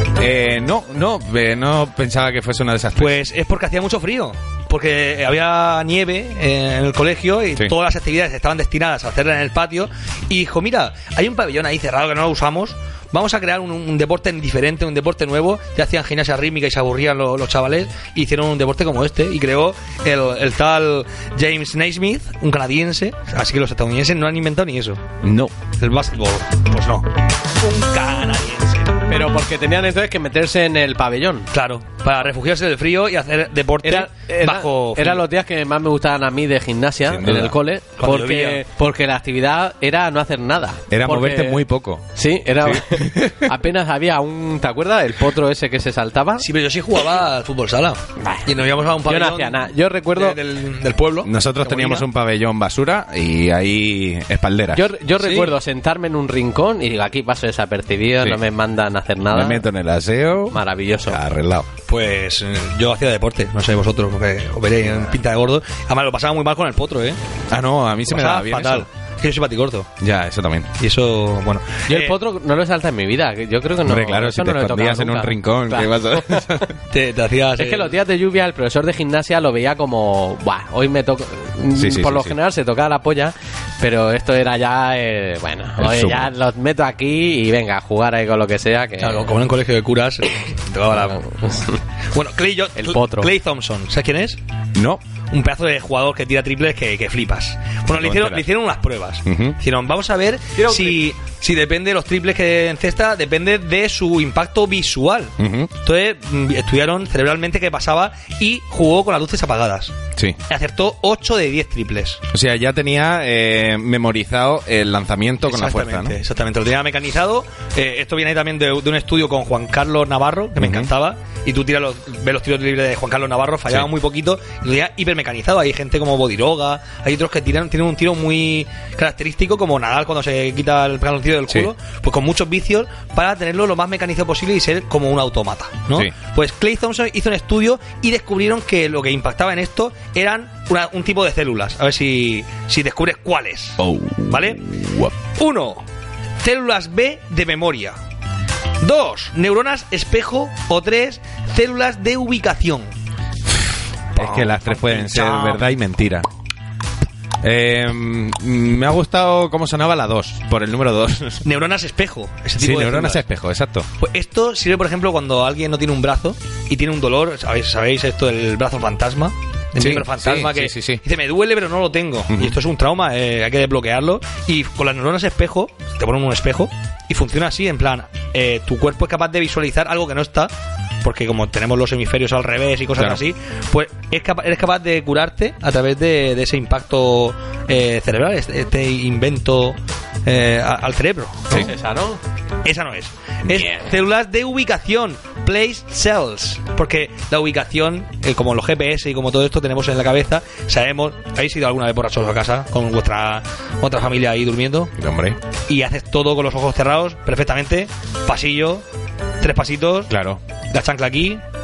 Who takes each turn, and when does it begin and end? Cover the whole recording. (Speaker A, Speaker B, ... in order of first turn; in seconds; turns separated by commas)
Speaker A: 0.2-3.2, Speaker B: 3.0-25.0, Speaker A: 25.2-25.5, Speaker B: 25.8-29.1, Speaker C: 29.1-31.5, Speaker B: 31.5-35.2, Speaker C: 33.8-41.6, Speaker A: 37.1-37.5, Speaker B: 38.0-38.6, Speaker A: 40.9-42.0, Speaker C: 42.1-46.5, Speaker A: 42.6-43.5, Speaker B: 46.4-52.0, Speaker C: 48.2-48.5, Speaker C: 49.0-50.4, Speaker A: 51.2-54.9, Speaker C: 54.7-59.6, Speaker B: 55.2-55.5, Speaker A: 59.3-61.7, Speaker C: 60.5-61.2, Speaker B: 61.9-67.2, Speaker A: 67.5-68.9, Speaker B: 68.1-69.9, Speaker A: 70.0-70.7, Speaker B: 70.8-72.2, Speaker C: 71.9-76.5, Speaker A: 73.8-76.7, Speaker B: 76.9-77.9, Speaker C: 77.6-89.3, Speaker A: 81.7-82.3, Speaker A: 85.8-86.3, Speaker B: 89.0-91.4, Speaker C: 91.0-91.8, Speaker B: 92.1-94.4, Speaker C: 92.8-93.3, Speaker A: 94.7-95.0, Speaker B: 95.3-109.9, Speaker A: 97.9-98.5, Speaker A: 99.2-99.6, Speaker C: 100.6-101.0, Speaker A: 105.4-105.7, Speaker B: 110.5-112.2, Speaker A: 112.3-116.2, Speaker B: 115.5-144.6, Speaker A: 120.6-120.9, Speaker A: 143.8-145.1, Speaker B: 145.3-145.8, Speaker B: 146.4-147.9, Speaker B: 148.8-152.9, Speaker B: 154.1-155.6, Speaker A: 154.1-156.2, Speaker A: 157.4-161.4, Speaker B: 161.4-163.2, Speaker A: 162.6-163.9, Speaker B: 164.0-180.5, Speaker A: 169.8-171.0, Speaker A: 172.3-172.6, Speaker B: 181.0-191.7, Speaker C: 191.5-192.2, Speaker B: 192.6-204.9, Speaker A: 193.4-193.8, Speaker A: 205.0-205.4, Speaker B: 205.7-208.8, Speaker B: 209.4-210.1, Speaker A: 210.1-210.4, Speaker B: 210.7-211.4